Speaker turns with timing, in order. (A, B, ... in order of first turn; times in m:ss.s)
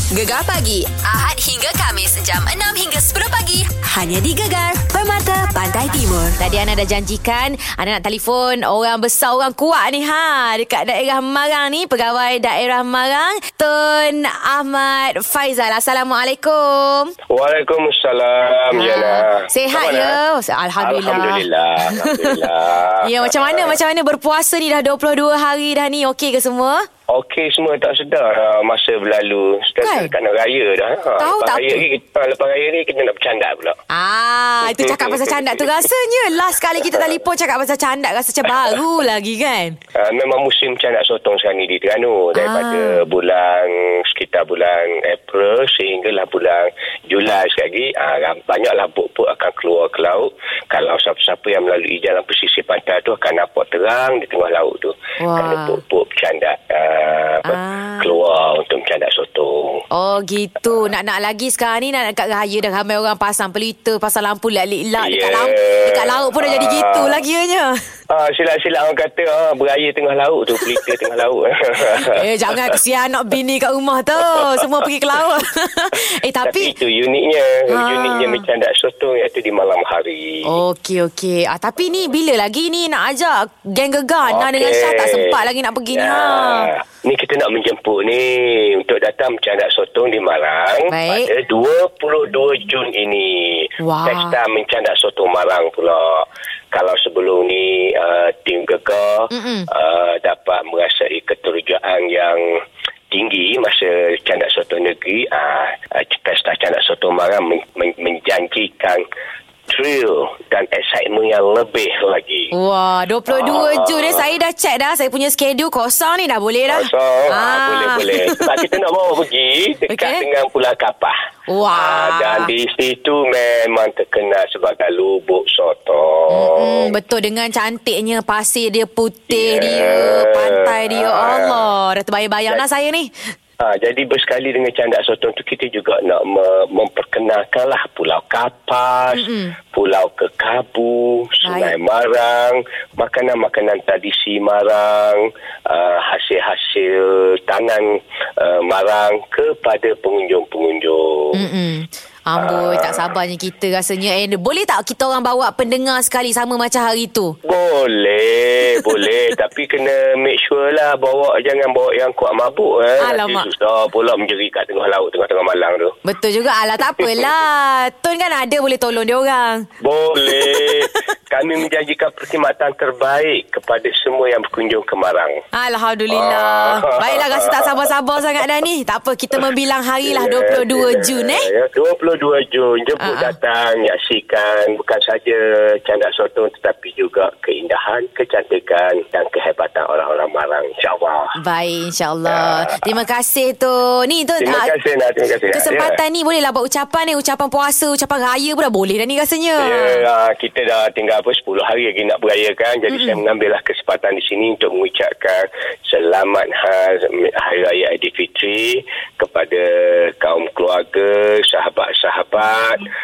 0:00.1-0:06.4 A
0:06.4-0:17.1 B
0:17.3-0:20.2 C
0:18.7-0:22.4 B
0:20.8-0:23.8 C
0:23.0-0:26.9 B
0:27.1-0:33.8 C
0:29.8-0:30.1 B
0:31.2-0:31.8 B
0:33.9-0:39.8 B
0:34.6-0:35.9 C
0:36.8-0:37.1 C
0:39.9-0:59.8 C
0:42.4-0:43.0 B
0:55.2-0:55.8 B
0:57.4-0:58.2 B
0:59.9-1:07.8 B
1:05.0-1:07.2 C
1:08.1-1:12.2 C
1:12.0-1:16.8 B
1:16.4-1:20.6 C
1:17.7-1:18.5 B
1:20.4-1:26.7 B
1:24.2-1:25.4 C
1:25.9-1:42.4 C
1:30.9-1:31.3 B
1:33.8-1:34.4 B
1:39.3-1:39.7 B
1:43.1-1:49.0 C
1:49.7-1:52.5 C
1:52.5-1:58.6 B
1:53.3-1:54.2 C
1:56.7-2:01.1 C
1:59.9-2:00.2 B
2:01.5-2:02.5 B
2:01.7-2:07.0 C
2:06.3-2:13.1 B
2:09.3-2:11.6 C
2:13.6-2:31.4 C
2:19.1-2:19.6 B
2:21.4-2:21.8 B
2:31.3-2:37.4 B
2:32.4-2:33.1 C
2:37.4-2:46.0 C
2:43.0-2:43.5 B
2:46.0-2:49.7 B
2:49.8-2:55.4 C
2:50.3-2:50.9 B
2:55.5-3:01.5 B
2:56.1-2:57.7 C
3:00.0-3:11.4 C
3:03.0-3:03.4 B
3:11.4-3:14.7 B
3:12.2-3:12.8 C
3:14.4-3:16.0 C
3:15.5-3:20.0 B
3:19.6-3:32.9 C
3:22.9-3:23.2 B